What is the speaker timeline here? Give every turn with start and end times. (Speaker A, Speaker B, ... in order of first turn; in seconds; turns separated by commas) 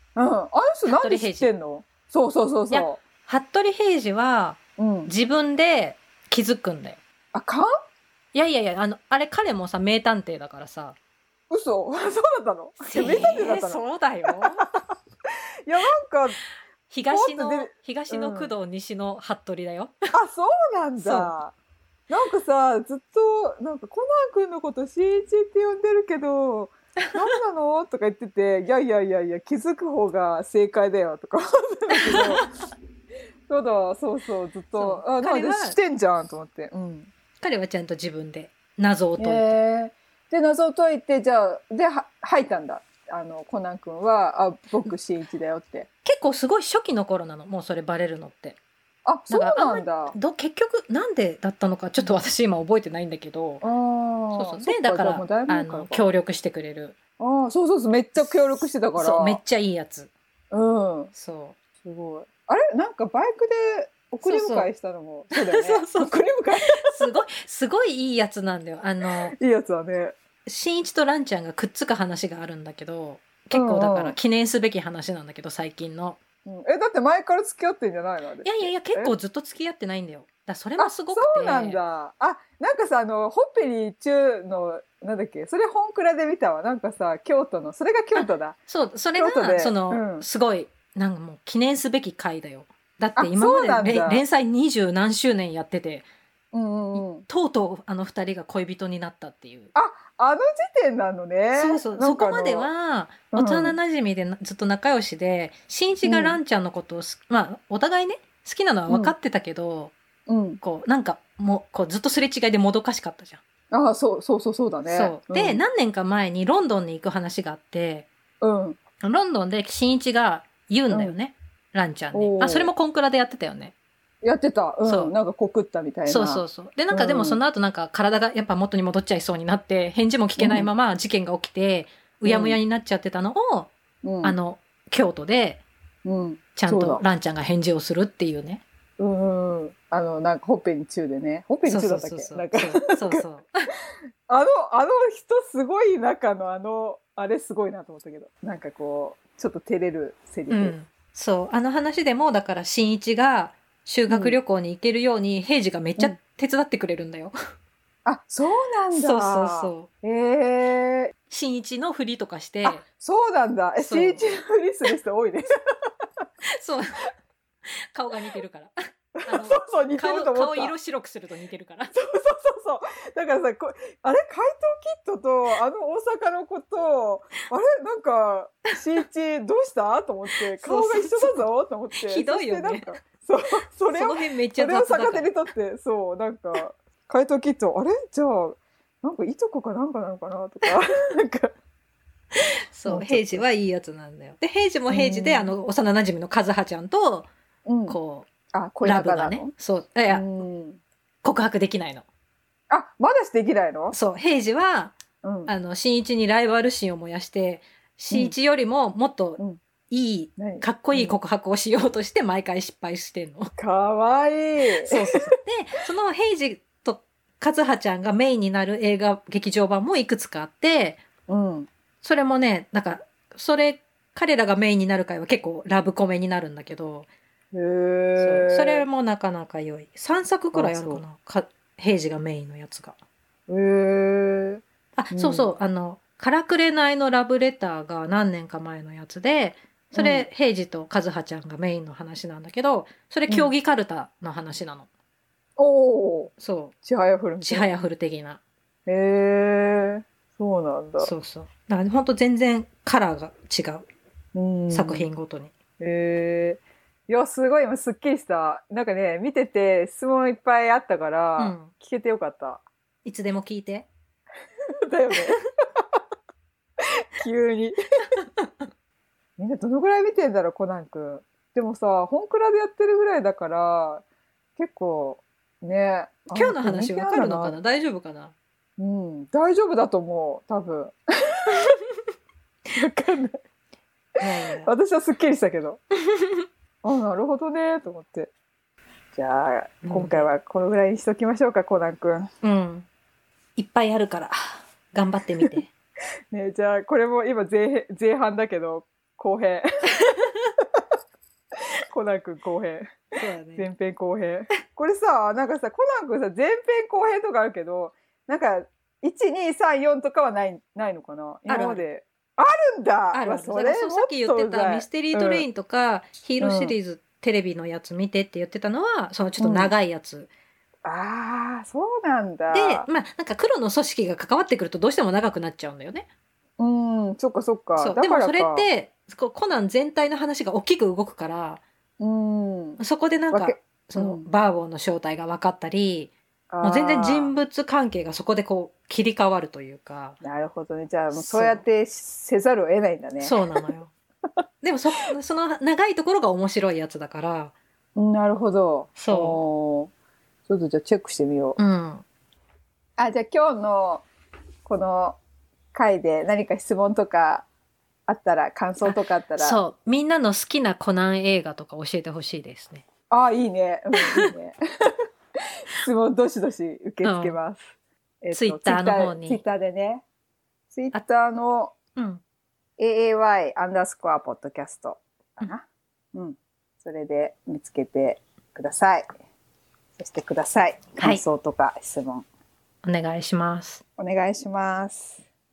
Speaker A: 0.2-3.0, Speaker B: 0.9-1.5, Speaker B: 2.7-7.0, Speaker A: 4.8-5.1, Speaker A: 7.3-7.7, Speaker B: 8.3-11.0, Speaker A: 11.5-14.7, Speaker B: 12.8-14.6, Speaker A: 15.7-16.4, Speaker B: 16.9-19.9, Speaker A: 17.1-18.5, Speaker A: 20.1-21.5, Speaker B: 21.0-21.3, Speaker A: 22.1-32.5, Speaker A: 33.5-37.1, Speaker B: 34.8-35.8, Speaker B: 37.4-39.6, Speaker A: 39.2-45.9, Speaker B: 46.0-48.6, Speaker A: 49.1-50.2, Speaker B: 49.3-53.6, Speaker A: 53.6-56.0, Speaker B: 54.4-57.0, Speaker A: 57.2-59.4, Speaker B: 58.2-60.1, Speaker A: 60.5-61.1, Speaker B: 61.1-61.6, Speaker A: 61.8-67.2, Speaker B: 64.2-64.7, Speaker B: 65.3-69.3, Speaker A: 69.1-70.2, Speaker B: 70.5-76.2, Speaker A: 73.5-74.2, Speaker A: 76.5-79.1, Speaker B: 78.4-81.8, Speaker A: 80.8-88.6, Speaker B: 88.2-96.1, Speaker A: 89.2-90.3, Speaker A: 93.2-94.3, Speaker A: 96.5-97.3, Speaker B: 97.0-99.7, Speaker A: 99.8-102.7, Speaker B: 101.5-109.9, Speaker A: 103.3-103.8, Speaker A: 106.0-106.4, Speaker A: 108.9-109.1, Speaker A: 110.3-110.6, Speaker B: 110.6-113.4, Speaker A: 113.7-115.6, Speaker B: 114.9-118.1, Speaker A: 118.4-118.8, Speaker B: 119.0-123.7, Speaker A: 120.9-121.2, Speaker A: 122.1-122.7, Speaker A: 124.2-127.4, Speaker B: 124.8-125.1, Speaker B: 126.1-133.7, Speaker A: 130.4-130.7, Speaker A: 132.2-132.6, Speaker A: 134.0-134.4, Speaker B: 134.2-135.6, Speaker A: 136.1-137.0, Speaker B: 136.6-138.6, Speaker A: 139.0-143.2, Speaker B: 141.7-143.5, Speaker A: 144.3-150.8, Speaker B: 150.5-157.3, Speaker A: 154.1-154.4, Speaker A: 158.1-161.1, Speaker B: 158.9-159.9, Speaker B: 161.3-162.8, Speaker A: 162.6-165.5, Speaker B: 163.8-164.2, Speaker B: 166.5-167.0, Speaker B: 167.9-168.8, Speaker A: 169.2-170.8, Speaker B: 169.3-171.9, Speaker A: 171.9-191.5, Speaker B: 180.5-182.9, Speaker B: 183.9-185.3, Speaker B: 192.7-197.3, Speaker A: 192.9-193.4, Speaker A: 194.9-195.5, Speaker A: 197.7-198.0, Speaker B: 197.9-198.3, Speaker A: 198.5-199.5, Speaker B: 198.8-200.2, Speaker A: 200.1-200.8, Speaker B: 201.2-202.1, Speaker A: 202.7-204.0, Speaker B: 203.9-205.0, Speaker A: 205.2-205.5, Speaker B: 205.5-213.5, Speaker A: 210.4-211.2, Speaker A: 213.6-215.2, Speaker B: 214.8-221.0, Speaker A: 221.3-221.7, Speaker B: 222.0-227.1, Speaker A: 227.5-228.9, Speaker B: 228.2-233.0, Speaker A: 230.5-231.0, Speaker A: 233.5-235.5, Speaker B: 235.0-244.9, Speaker A: 239.9-240.3, Speaker A: 245.6-246.3, Speaker B: 246.4-246.8, Speaker A: 246.8-247.7, Speaker B: 247.4-248.4, Speaker A: 248.9-251.1, Speaker B: 251.0-253.9, Speaker A: 254.3-255.1, Speaker B: 254.7-255.5, Speaker A: 255.8-262.6, Speaker B: 261.4-261.7, Speaker B: 263.1-263.9, Speaker A: 264.9-265.4, Speaker A: 267.1-267.8, Speaker B: 268.2-268.7, Speaker A: 269.4-274.0, Speaker A: 274.6-277.5, Speaker B: 276.3-278.3, Speaker A: 278.8-281.5, Speaker A: 282.7-283.4, Speaker B: 284.2-284.7, Speaker A: 284.6-285.8, Speaker B: 286.1-286.4, Speaker A: 286.8-288.3, Speaker A: 289.1-292.3, Speaker B: 289.9-290.3, Speaker B: 292.4-292.9, Speaker B: 293.6-295.7, Speaker A: 296.3-299.7, Speaker A: 301.9-303.0, Speaker B: 303.2-303.7, Speaker A: 303.6-315.5, Speaker B: 311.5-311.9, Speaker B: 313.1-320.3, Speaker A: 316.4-316.8, Speaker A: 319.4-319.7, Speaker A: 320.9-322.9, Speaker B: 322.5-326.1, Speaker A: 326.6-328.7, Speaker B: 327.8-331.6, Speaker A: 332.0-334.3, Speaker B: 332.8-340.2, Speaker A: 336.5-337.3, Speaker A: 340.2-343.6, Speaker B: 341.1-341.6, Speaker B: 343.2-343.9, Speaker B: 344.6-347.5, Speaker A: 348.0-349.9, Speaker B: 349.0-349.4, Speaker A: 350.5-351.6, Speaker B: 351.6-352.1, Speaker A: 353.0-354.1, Speaker A: 354.6-355.2, Speaker A: 355.7-357.5, Speaker A: 358.1-359.6, Speaker B: 358.8-362.9, Speaker A: 363.1-364.6, Speaker A: 365.7-367.7, Speaker B: 367.0-367.4, Speaker A: 368.2-370.0, Speaker B: 368.3-369.4, Speaker A: 370.7-371.7, Speaker B: 372.0-372.2, Speaker A: 372.8-379.1, Speaker A: 380.0-382.3, Speaker B: 382.8-383.8, Speaker A: 384.0-385.2